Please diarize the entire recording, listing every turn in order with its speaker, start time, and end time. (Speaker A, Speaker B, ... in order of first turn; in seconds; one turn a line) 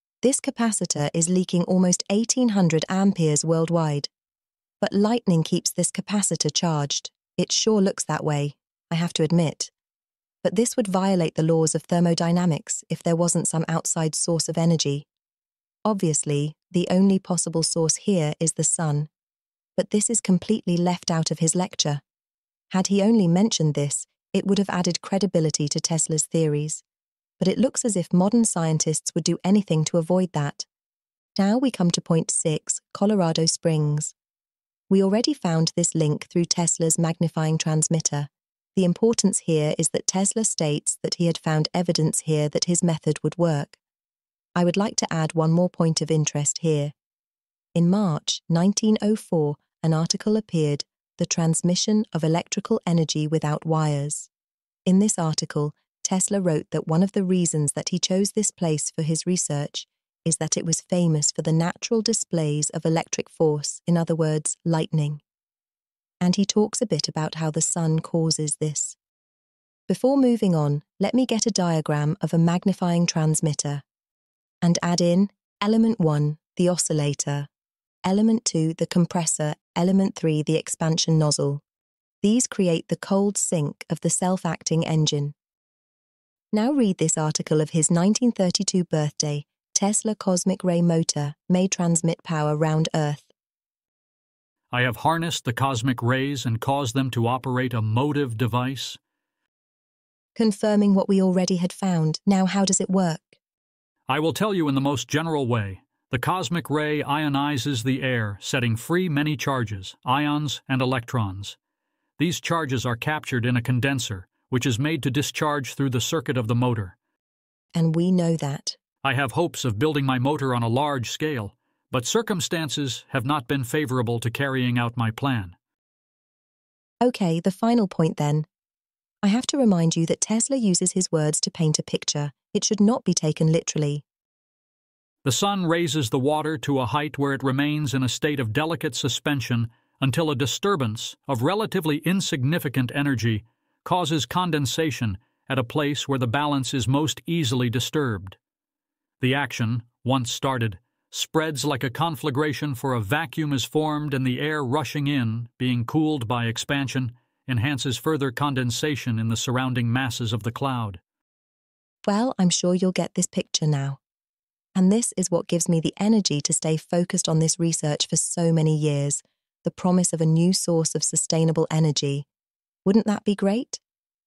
Speaker A: 0.2-4.1
Speaker A: 4.8-9.7
Speaker A: 10.4-15.1
Speaker A: 15.8-19.1
Speaker A: 19.8-22.0
Speaker A: 22.7-26.8
Speaker A: 27.4-30.6
Speaker A: 31.4-34.1
Speaker A: 34.9-43.8
Speaker A: 44.5-46.9
Speaker A: 47.7-54.3
Speaker A: 54.9-65.2
Speaker A: 66.2-69.0
Speaker A: 69.9-73.8
Speaker A: 74.6-77.5
Speaker A: 78.0-81.6
Speaker A: 82.2-85.3
Speaker A: 86.5-93.3
Speaker B: 94.7-99.0
Speaker A: 100.3-103.4
Speaker B: 104.1-111.6
Speaker B: 112.2-117.0
Speaker A: 117.7-118.8
Speaker B: 119.0-125.5
Speaker A: 127.0-128.5
Speaker A: 129.2-134.0
Speaker B: 135.2-148.3
Speaker B: 149.2-161.0
Speaker A: 162.0-164.0
Speaker A: 164.8-172.2
Speaker A: 172.8-173.8